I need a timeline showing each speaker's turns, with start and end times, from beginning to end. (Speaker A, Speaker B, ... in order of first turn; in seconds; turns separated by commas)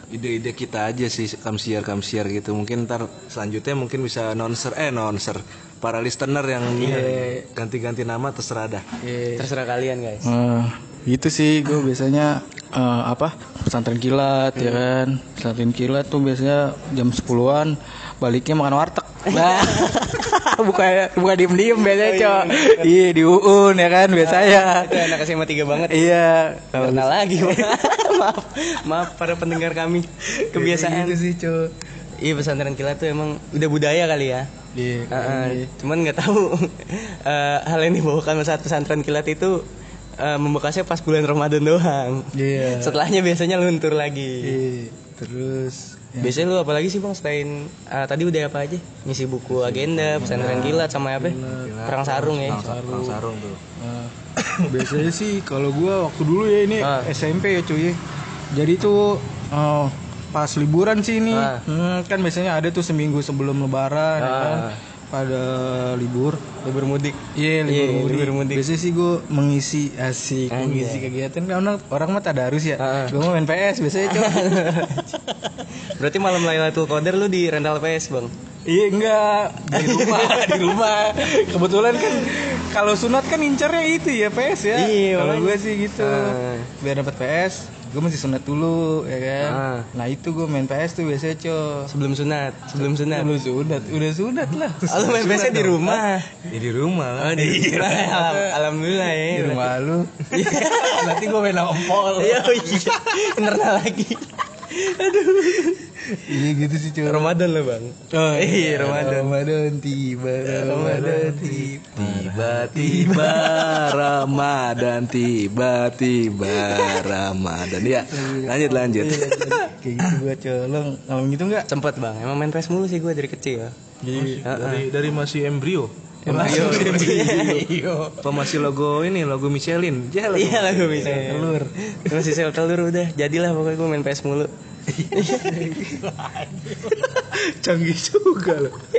Speaker A: 0.1-8.8, Speaker B: 6.8-7.2, Speaker C: 6.8-7.5, Speaker C: 9.0-9.5, Speaker B: 9.4-10.3, Speaker C: 10.2-25.2, Speaker B: 14.6-14.8, Speaker B: 19.3-19.9, Speaker B: 21.9-22.9, Speaker B: 24.2-26.1, Speaker C: 25.9-27.8, Speaker B: 26.7-31.2, Speaker C: 30.3-31.7, Speaker B: 32.2-34.5, Speaker C: 34.7-35.7, Speaker B: 35.1-39.6, Speaker B: 40.2-44.6, Speaker C: 42.3-43.0, Speaker C: 44.4-46.5, Speaker B: 46.2-52.7, Speaker A: 49.5-50.9, Speaker C: 50.2-53.2, Speaker A: 51.4-53.6, Speaker C: 53.8-58.0, Speaker A: 54.5-54.8, Speaker B: 56.8-57.1, Speaker C: 58.5-66.4, Speaker B: 61.3-61.6, Speaker B: 64.2-64.8, Speaker B: 66.6-68.7, Speaker C: 67.3-74.9, Speaker B: 70.5-71.1, Speaker B: 72.8-73.2, Speaker B: 74.0-75.2, Speaker B: 75.7-78.3, Speaker C: 78.7-91.9, Speaker B: 79.7-80.8, Speaker B: 84.7-86.7, Speaker B: 89.4-89.9, Speaker B: 91.9-93.3, Speaker C: 92.9-95.0, Speaker A: 94.8-97.6, Speaker B: 94.9-96.4, Speaker B: 97.2-99.7, Speaker C: 97.3-103.0, Speaker B: 100.3-106.0, Speaker C: 106.2-107.3, Speaker B: 107.0-109.4, Speaker C: 108.1-113.8, Speaker B: 110.5-113.5, Speaker A: 110.6-120.1, Speaker C: 118.0-121.7, Speaker B: 121.7-123.7, Speaker C: 124.0-124.5, Speaker A: 124.1-127.4, Speaker B: 124.5-124.9, Speaker B: 126.2-128.6, Speaker C: 126.3-127.7, Speaker A: 128.2-131.6, Speaker B: 130.3-134.5, Speaker C: 131.0-131.7, Speaker C: 134.9-138.8, Speaker B: 135.1-135.6